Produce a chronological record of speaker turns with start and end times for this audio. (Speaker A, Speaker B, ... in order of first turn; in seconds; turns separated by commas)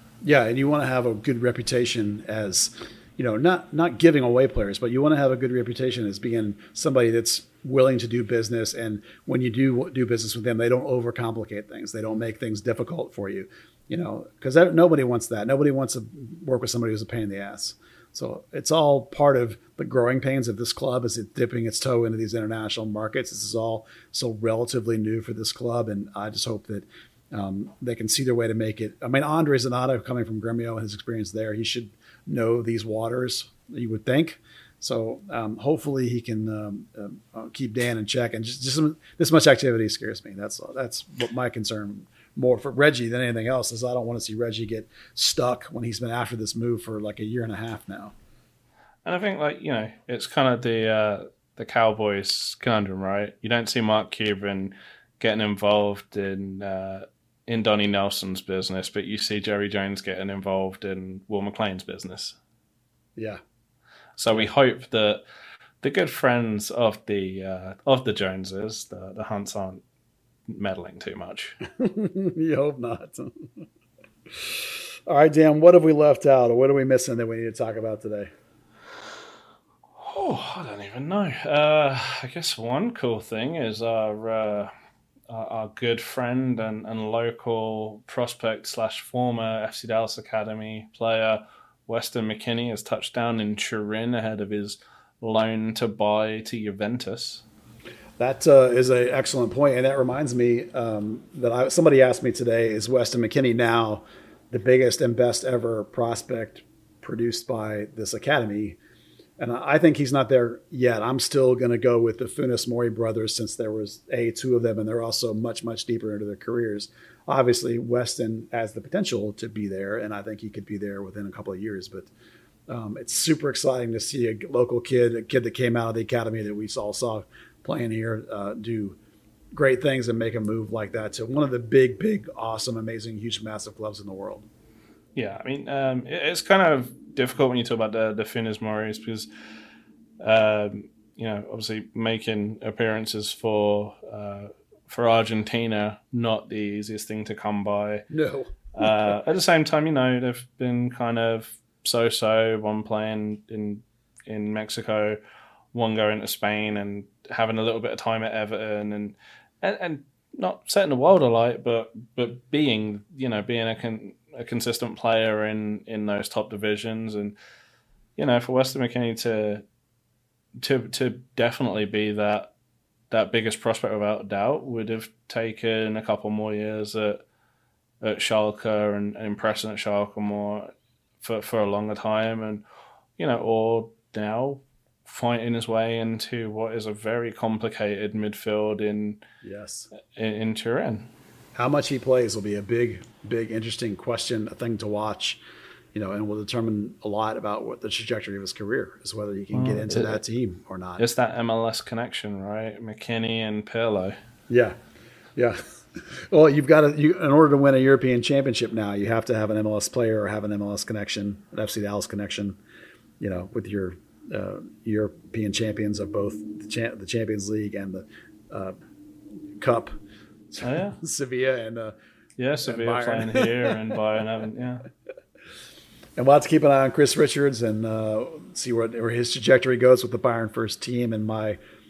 Speaker A: 0.2-48.1, Speaker B: 49.0-62.4, Speaker A: 63.2-63.4, Speaker B: 64.2-65.2, Speaker B: 65.8-69.8, Speaker B: 70.5-71.6, Speaker A: 71.7-73.5, Speaker A: 74.3-78.3, Speaker B: 80.0-84.7, Speaker B: 85.3-97.4, Speaker A: 98.2-108.8, Speaker A: 109.4-122.1, Speaker A: 122.7-129.0, Speaker A: 129.5-134.5, Speaker B: 135.2-139.3, Speaker B: 140.2-148.1, Speaker A: 148.1-149.2, Speaker B: 148.8-155.2, Speaker B: 155.7-167.4, Speaker B: 168.2-169.6, Speaker B: 170.6-172.5, Speaker B: 173.1-177.2, Speaker B: 178.0-182.7, Speaker B: 183.2-189.2, Speaker A: 189.4-189.9, Speaker B: 189.9-191.1, Speaker A: 191.6-195.4, Speaker A: 195.9-201.0, Speaker B: 199.5-200.2, Speaker B: 201.0-204.2, Speaker A: 204.5-204.8, Speaker A: 205.4-212.6, Speaker A: 213.2-218.7, Speaker A: 219.6-219.9, Speaker A: 220.5-221.9, Speaker B: 220.6-221.0, Speaker B: 222.4-224.9, Speaker A: 222.6-223.8, Speaker A: 226.2-231.6